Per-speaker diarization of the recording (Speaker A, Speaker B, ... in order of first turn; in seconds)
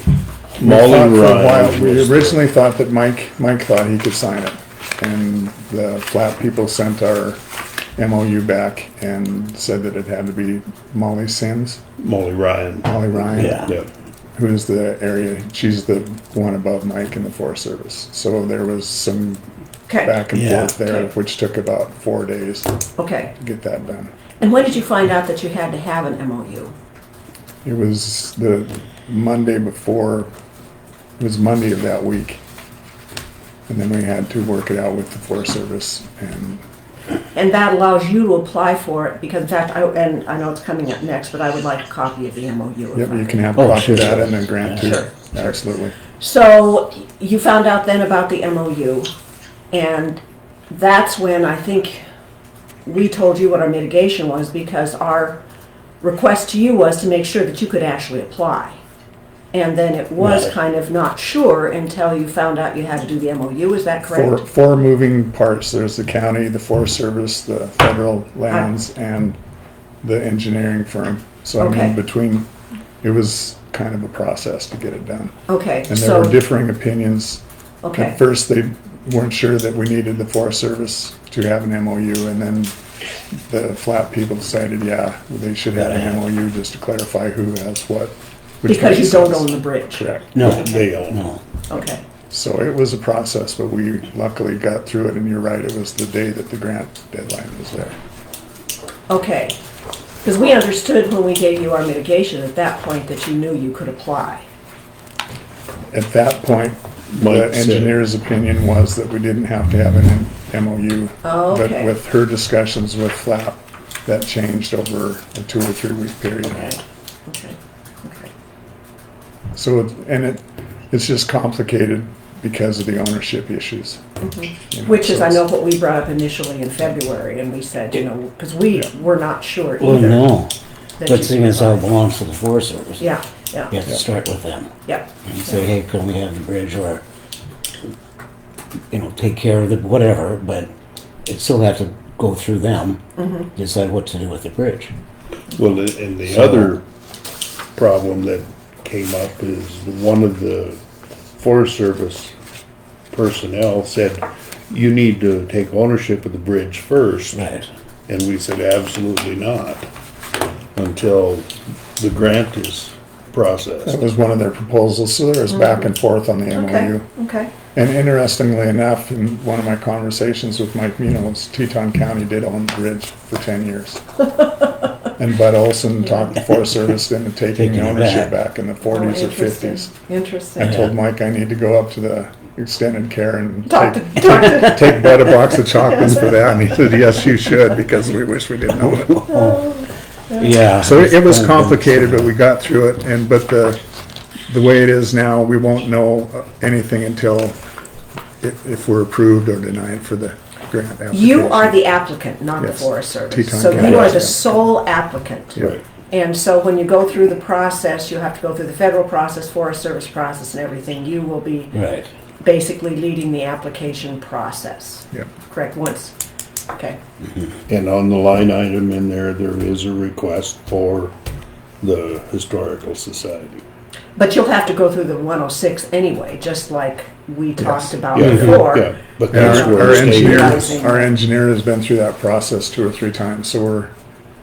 Speaker A: 0.6-2.4, 12.0-13.9, 90.4-91.3, 107.2-108.0, 145.5-146.8, 147.8-150.8, 151.4-152.3, 153.1-157.6, 158.1-159.9, 160.8-164.0, 205.6-205.8, 217.7-221.2, 221.8-223.6, 228.0-230.8
Speaker B: 0.6-7.4, 8.0-11.8, 12.8-13.7, 14.3-19.4, 20.0-22.7, 23.4-24.1, 27.6-30.3, 31.2-32.4, 33.7-36.6, 42.9-46.0, 64.1-69.4, 70.0-72.5, 73.0-75.4, 75.9-77.4, 77.9-82.8, 83.3-90.4, 92.3-98.0, 105.9-116.8, 119.5-124.0, 124.7-125.4, 163.9-167.1, 167.7-174.0, 175.2-179.9, 180.6-189.3, 190.8-193.8, 194.5-197.6, 198.4-201.8, 202.6-204.4, 229.3-233.9
Speaker C: 13.4-13.7, 20.4-20.7, 43.6-44.8, 60.2-60.5, 85.8-86.2, 90.3-91.4, 129.8-133.1, 133.7-134.7, 135.3-137.0, 138.9-140.7, 141.3-143.0, 143.6-144.9, 146.3-146.7, 177.6-178.3, 180.6-180.9, 188.8-189.7, 190.4-192.3, 211.8-212.1
Speaker D: 19.9-20.2, 20.8-21.1, 23.0-23.3, 24.4-26.8, 37.3-43.4, 44.8-45.5, 46.2-49.1, 49.7-52.0, 52.9-55.4, 56.0-58.8, 59.5-64.4, 71.6-72.0, 75.5-76.4, 77.8-78.2, 88.7-90.8, 91.7-92.0, 99.1-99.6, 100.2-104.5, 111.2-111.9, 116.5-118.3, 124.2-130.4, 131.0-132.0, 133.0-133.8, 134.8-135.6, 143.2-143.5, 165.5-165.9, 166.5-167.5, 178.8-180.8, 183.7-184.9, 185.9-186.3, 189.3-190.6, 201.1-205.6, 206.1-216.1, 216.7-217.0, 224.2-231.1